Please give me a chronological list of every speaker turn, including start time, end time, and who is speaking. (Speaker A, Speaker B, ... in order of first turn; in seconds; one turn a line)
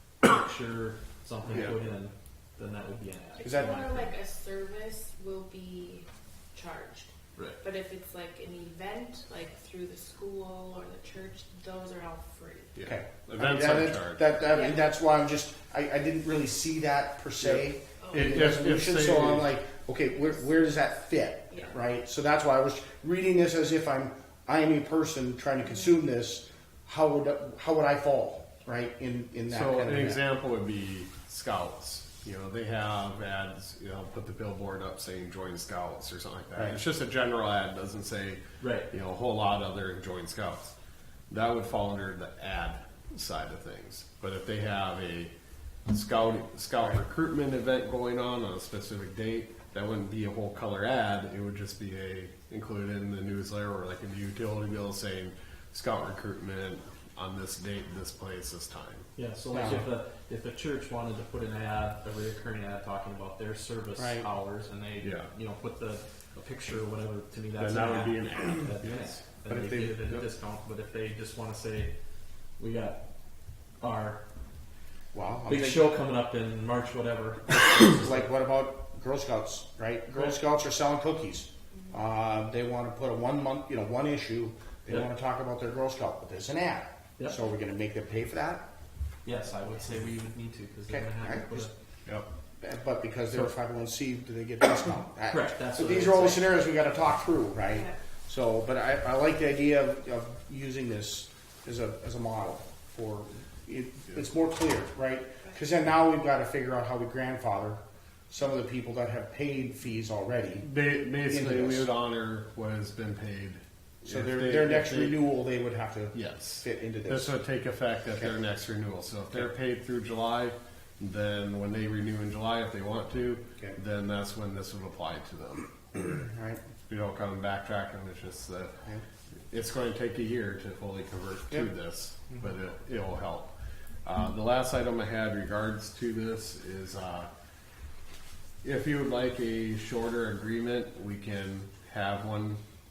Speaker A: 0.2-3.5
Speaker B: 1.5-1.8
Speaker C: 3.4-12.7
Speaker D: 3.4-4.1
Speaker B: 12.8-14.4
Speaker D: 12.8-30.2
Speaker C: 14.5-14.9
Speaker B: 17.4-19.5
Speaker C: 18.0-18.3
Speaker C: 21.5-21.8
Speaker B: 29.5-40.7
Speaker A: 38.6-38.9
Speaker B: 41.3-45.3
Speaker B: 45.9-59.1
Speaker A: 59.2-71.9
Speaker D: 59.5-59.9
Speaker D: 64.0-64.3
Speaker B: 65.0-65.3
Speaker B: 67.6-69.5
Speaker D: 69.5-69.9
Speaker A: 72.6-73.0
Speaker A: 73.8-74.2
Speaker D: 75.1-75.9
Speaker A: 75.5-78.3
Speaker D: 77.9-88.7
Speaker A: 89.2-91.7
Speaker D: 90.9-91.7
Speaker D: 92.6-110.7
Speaker A: 95.3-96.5
Speaker C: 97.7-98.0
Speaker B: 110.6-115.3
Speaker D: 111.2-111.9
Speaker D: 114.1-117.3
Speaker B: 116.1-126.2
Speaker D: 126.2-126.6
Speaker B: 126.9-128.8
Speaker B: 129.5-133.5
Speaker B: 134.0-137.3
Speaker B: 138.6-142.6